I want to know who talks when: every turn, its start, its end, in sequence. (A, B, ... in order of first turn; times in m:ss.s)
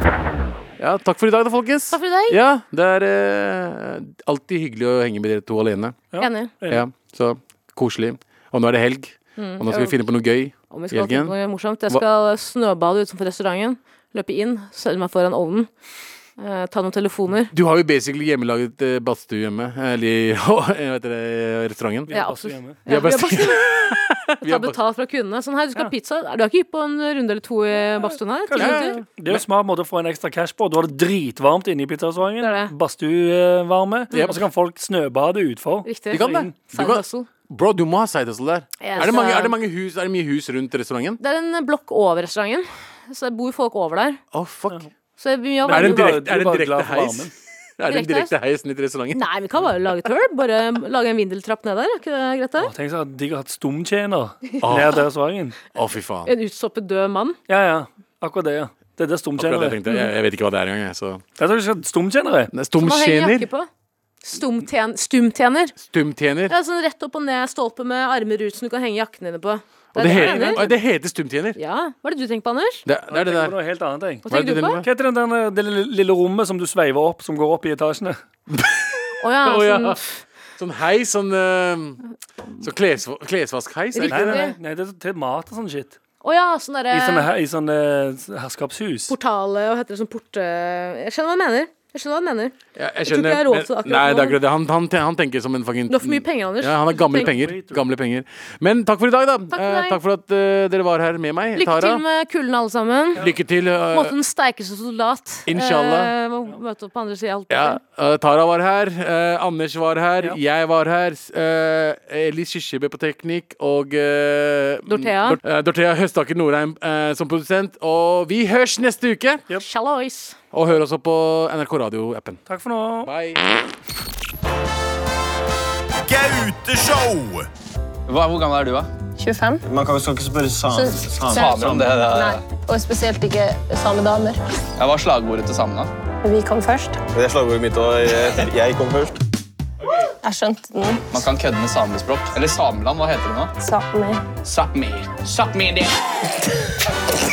0:00.8-0:06.0 A
0:01.9-0:02.4 B
0:06.1-0:06.8 C
0:06.2-0:06.5 B
0:06.7-0:11.3 A
0:09.4-0:10.0 B
0:10.7-0:15.7 B
0:16.4-0:17.5 B
0:17.5-0:22.1 A
0:22.1-0:22.8 C
0:22.1-0:29.0 B
0:22.8-0:24.8 A
0:28.5-0:36.5 C
0:28.6-0:29.4 A
0:32.4-0:32.7 B
0:34.1-0:34.4 B
0:34.1-0:34.4 A
0:35.8-0:37.3 B
0:36.1-0:41.2 A
0:38.8-0:39.6 B
0:41.2-0:44.2 B
0:44.3-0:44.8 A
0:45.2-0:46.2 B
0:45.6-0:47.3 C
0:45.7-0:49.2 A
0:47.9-0:48.3 B
0:49.1-0:52.7 B
0:52.6-0:55.6 C
0:54.6-0:55.0 A
0:55.7-0:56.3 A
0:56.2-0:57.4 B
0:57.5-0:59.8 C
0:59.4-1:01.2 A
1:01.4-1:02.5 C
1:02.5-1:03.5 A
1:02.8-1:03.7 B
1:04.2-1:05.8 B
1:05.8-1:06.5 A
1:06.5-1:10.6 B
1:09.9-1:11.6 A
1:10.1-1:10.7 C
1:11.6-1:12.8 B
1:12.8-1:13.5 A
1:13.1-1:14.3 C
1:14.2-1:14.8 B
1:14.3-1:14.8 A
1:14.8-1:18.2 C
1:18.5-1:20.0 A
1:19.2-1:20.1 B
1:20.6-1:22.0 A
1:22.6-1:24.5 A
1:23.9-1:24.6 B
1:24.1-1:26.0 C
1:26.2-1:27.3 B
1:26.9-1:29.1 C
1:29.1-1:32.5 B
1:32.7-1:42.0 A
1:33.0-1:34.4 B
1:35.9-1:37.3 B
1:37.1-1:37.8 C
1:39.5-1:40.0 B
1:41.6-1:43.2 B
1:43.2-1:44.1 A
1:43.9-1:47.8 B
1:45.5-1:46.1 A
1:47.5-1:59.4 A
1:54.9-1:55.4 B
1:59.5-2:00.4 B
2:00.5-2:02.4 A
2:02.5-2:03.1 C
2:03.0-2:03.4 A
2:06.0-2:07.5 D
2:08.1-2:08.9 E
2:09.2-2:09.6 F
2:09.7-2:11.9 D
2:10.7-2:14.4 F
2:11.3-2:12.4 E
2:14.8-2:15.9 E
2:16.2-2:17.0 F
2:17.1-2:19.2 D
2:20.2-2:21.2 F
2:21.1-2:23.5 E
2:23.6-2:24.2 F
2:24.4-2:25.9 E